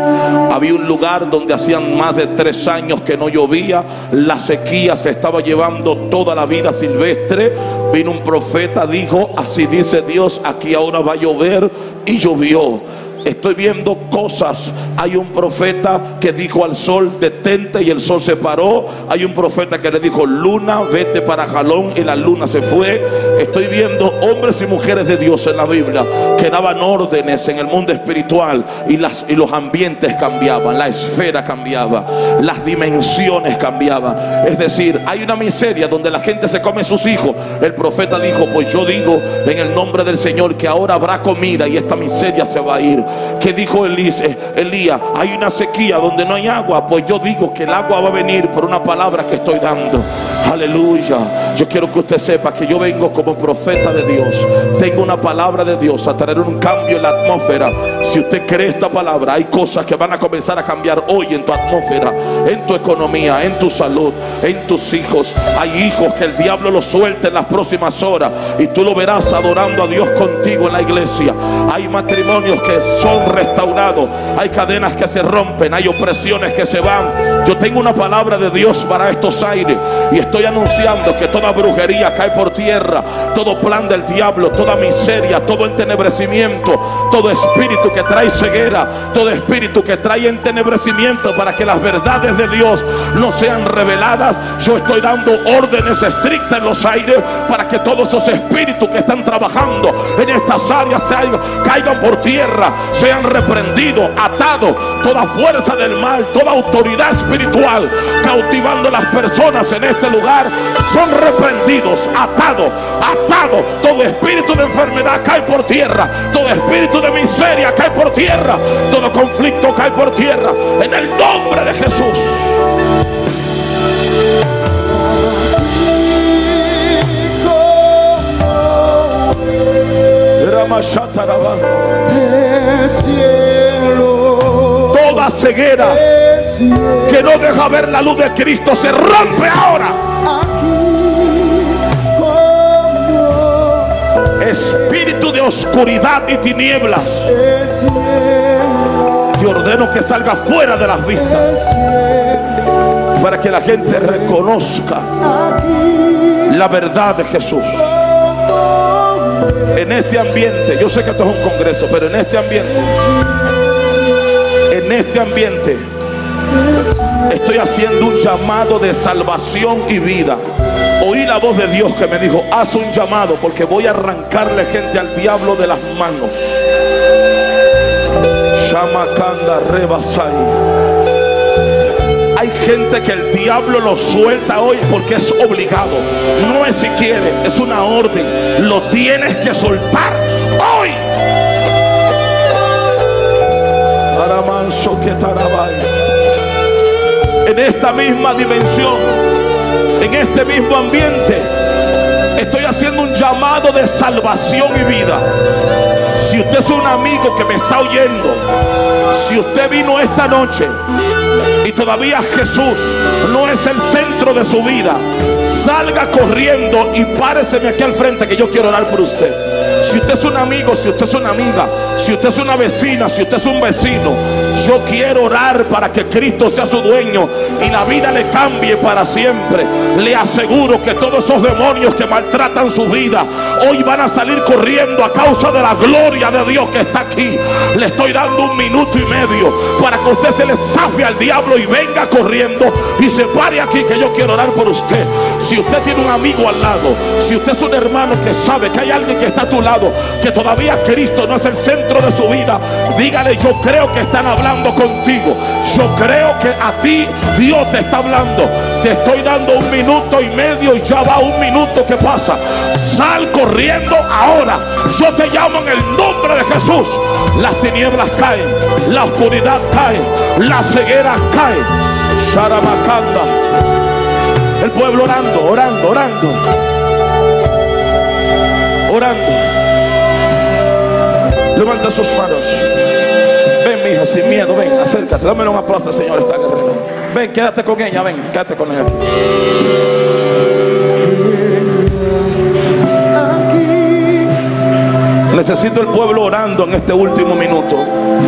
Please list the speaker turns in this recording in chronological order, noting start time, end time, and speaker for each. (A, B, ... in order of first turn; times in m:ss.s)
0:00.5-2:02.6 A
2:05.1-2:09.5 B
2:10.4-2:12.0 A
2:12.1-2:15.2 B
2:14.9-2:16.0 A
2:15.8-2:17.3 B
2:17.1-2:20.0 A
2:20.2-2:23.9 B
2:24.4-2:27.3 A
2:27.3-2:29.0 B
2:29.3-2:31.5 A
2:31.3-2:32.6 B
2:33.2-2:35.1 A
2:35.2-2:36.6 B
2:36.4-2:37.9 A
2:37.8-2:39.5 B
2:39.7-2:43.0 A
2:44.7-2:45.9 A
2:47.3-2:50.4 A
2:51.0-2:56.6 A
2:58.5-3:00.6 A
3:02.4-3:11.0 A
3:14.1-3:15.9 A
3:17.4-3:19.2 A
3:20.0-3:21.5 A
3:22.4-3:25.3 A
3:26.1-3:28.4 A
3:29.1-3:30.8 A
3:31.6-4:33.3 A
4:34.6-4:36.5 A
4:38.9-4:39.5 A
4:41.5-4:42.7 A
4:43.6-4:49.1 A
4:51.1-4:52.3 B
4:53.1-4:54.3 B
4:55.3-4:57.9 A